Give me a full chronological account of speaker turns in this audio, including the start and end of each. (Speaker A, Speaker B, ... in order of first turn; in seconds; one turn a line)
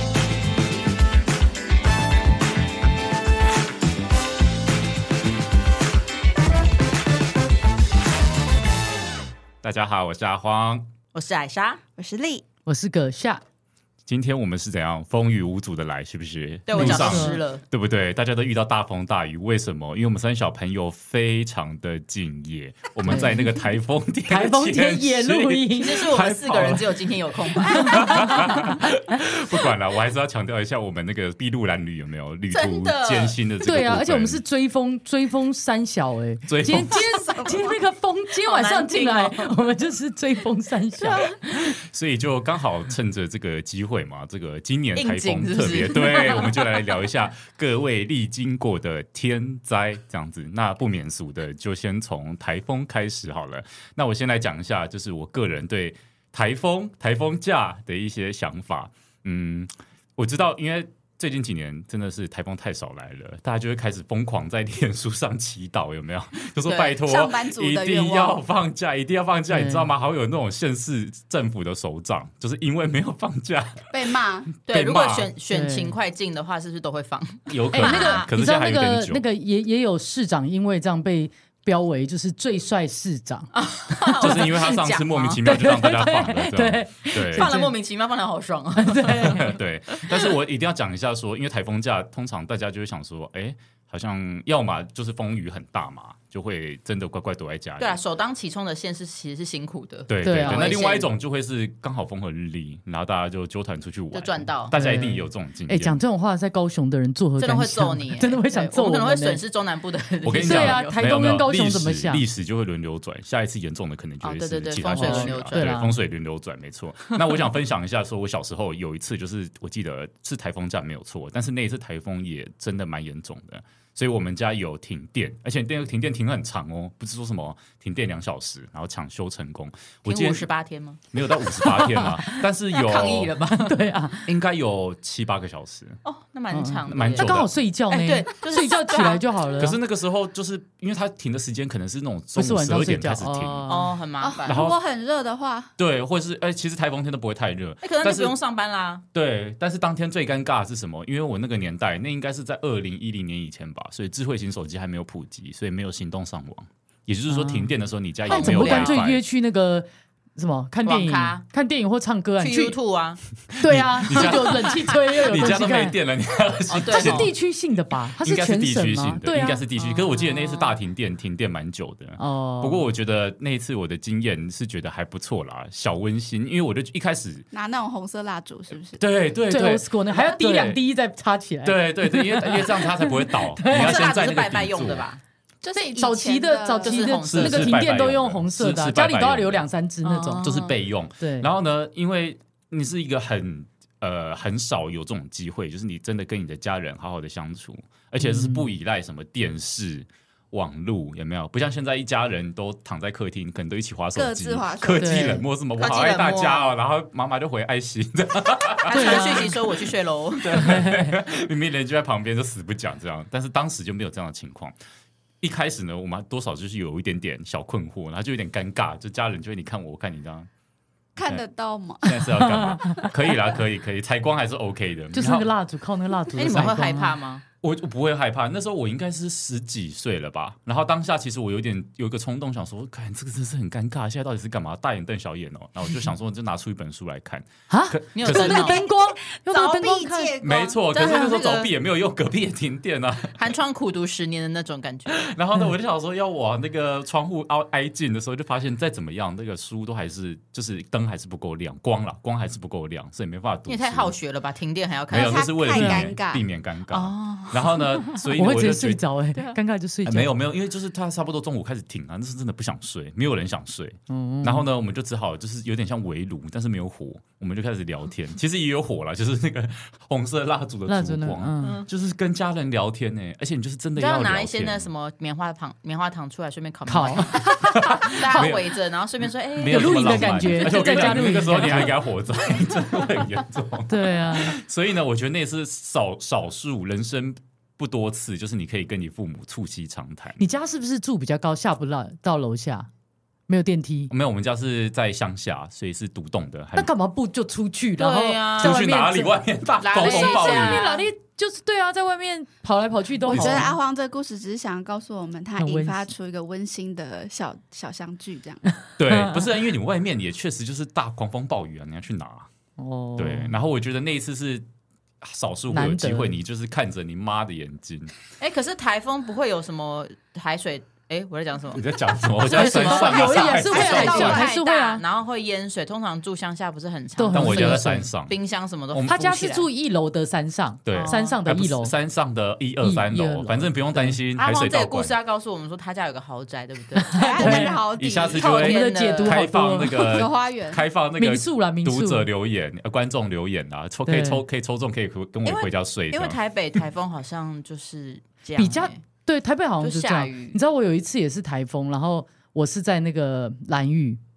Speaker A: 9.6-10.9
Speaker B: 11.1-11.8
Speaker C: 12.0-12.4
Speaker D: 12.7-13.4
Speaker A: 14.1-34.4
Speaker B: 16.7-17.6
Speaker D: 16.7-17.4
Speaker D: 23.1-23.6
Speaker D: 24.3-26.0
Speaker B: 25.8-28.8
Speaker B: 32.5-33.4
Speaker D: 33.6-41.8
Speaker A: 36.5-37.0
Speaker C: 36.9-37.8
Speaker B: 38.5-39.5
Speaker A: 41.8-73.9
Speaker B: 45.0-46.8
Speaker B: 66.7-67.0
Speaker C: 67.0-68.4
Speaker D: 69.5-69.9
Speaker C: 73.9-74.5
Speaker B: 74.7-78.3
Speaker A: 74.7-75.3
Speaker D: 75.5-75.9
Speaker A: 77.5-79.2
Speaker D: 77.7-83.5
Speaker B: 83.5-85.4
Speaker C: 84.2-84.5
Speaker A: 84.2-87.5
Speaker D: 85.4-87.7
Speaker B: 87.3-90.3
Speaker D: 88.8-89.5
Speaker A: 89.1-98.0
Speaker B: 97.8-101.1
Speaker A: 100.1-106.0
Speaker D: 100.2-100.7
Speaker B: 104.1-104.8
Speaker D: 104.7-109.4
Speaker B: 107.4-111.0
Speaker A: 110.2-130.5
Speaker D: 110.4-112.2
Speaker B: 114.2-115.6
Speaker D: 114.9-116.0
Speaker B: 130.1-131.0
Speaker A: 131.1-133.4
Speaker D: 131.6-132.1
Speaker B: 132.7-133.8
Speaker D: 133.6-134.3
Speaker A: 134.3-136.0
Speaker B: 136.1-137.3
Speaker D: 136.5-139.8
Speaker A: 136.9-137.5
Speaker B: 137.9-139.4
Speaker A: 139.6-143.7
Speaker D: 142.3-143.9
Speaker B: 143.7-144.7
Speaker C: 144.2-145.7
Speaker A: 144.4-144.8
Speaker A: 145.8-148.4
Speaker B: 147.8-149.0
Speaker A: 149.1-159.2
Speaker D: 157.3-157.7
Speaker B: 158.3-159.0
Speaker D: 158.3-162.8
Speaker B: 160.8-161.5
Speaker B: 162.4-163.2
Speaker A: 163.5-167.3
Speaker D: 163.6-166.0
Speaker B: 164.1-164.7
Speaker B: 166.7-167.3
Speaker D: 166.9-169.6
Speaker A: 168.2-177.5
Speaker B: 169.8-170.8
Speaker D: 172.2-172.9
Speaker C: 177.5-179.0
Speaker A: 179.0-180.8
Speaker D: 179.5-184.0
Speaker A: 181.6-185.1
Speaker B: 183.7-185.2
Speaker C: 185.6-187.2
Speaker D: 185.8-190.5
Speaker B: 186.8-187.8
Speaker A: 187.2-189.7
Speaker B: 190.0-190.8
Speaker A: 190.4-209.7
Speaker D: 191.2-191.5
Speaker D: 198.2-198.7
Speaker C: 204.2-205.4
Speaker D: 205.0-205.4
Speaker B: 205.8-206.7
Speaker B: 208.8-210.6
Speaker D: 208.9-209.5
Speaker A: 210.4-214.8
Speaker D: 210.5-211.2
Speaker A: 215.4-220.5
Speaker C: 221.2-223.4
Speaker A: 222.0-225.5
Speaker D: 222.4-223.1
Speaker D: 225.1-227.2
Speaker B: 226.3-227.4
Speaker A: 226.4-226.7
Speaker A: 227.6-238.8
Speaker D: 237.7-240.3
Speaker B: 238.2-238.8
Speaker C: 238.6-240.9
Speaker A: 240.4-243.4
Speaker B: 240.9-241.7
Speaker B: 243.4-245.2
Speaker A: 245.1-254.2
Speaker B: 253.7-255.5
Speaker C: 255.1-256.4
Speaker A: 255.1-259.0
Speaker D: 255.7-256.1
Speaker B: 256.9-258.2
Speaker D: 258.3-260.3
Speaker A: 260.1-274.9
Speaker D: 264.1-264.7
Speaker D: 270.9-271.8
Speaker B: 271.6-271.9
Speaker B: 274.0-281.9
Speaker D: 276.9-278.5
Speaker A: 277.6-278.7
Speaker A: 279.5-290.4
Speaker D: 279.7-282.0
Speaker D: 283.9-284.6
Speaker D: 290.4-292.9
Speaker D: 293.5-294.1
Speaker A: 294.1-296.9
Speaker D: 296.8-299.4
Speaker B: 298.0-298.8
Speaker A: 298.6-300.9
Speaker B: 299.8-301.0
Speaker D: 300.0-303.7
Speaker C: 303.3-308.6
Speaker A: 303.3-303.7
Speaker D: 305.6-306.1
Speaker A: 309.0-312.5
Speaker D: 309.1-309.4
Speaker D: 312.8-313.6
Speaker A: 313.2-314.7
Speaker A: 315.2-318.1
Speaker D: 315.7-316.4
Speaker B: 318.4-329.7
Speaker A: 321.7-324.5
Speaker D: 322.5-325.0
Speaker C: 323.7-324.6
Speaker D: 327.2-328.1
Speaker A: 327.3-328.4
Speaker A: 328.9-329.4
Speaker D: 329.1-331.9
Speaker A: 330.9-335.1
Speaker B: 330.9-331.4
Speaker D: 332.8-334.2
Speaker B: 334.4-337.7
Speaker D: 337.1-337.8
Speaker C: 337.1-338.5
Speaker A: 337.4-346.4
Speaker B: 338.3-339.4
Speaker D: 338.4-340.1
Speaker C: 339.9-340.8
Speaker D: 341.2-342.3
Speaker D: 344.1-344.4
Speaker B: 345.4-349.0
Speaker D: 348.6-354.2
Speaker B: 349.8-350.6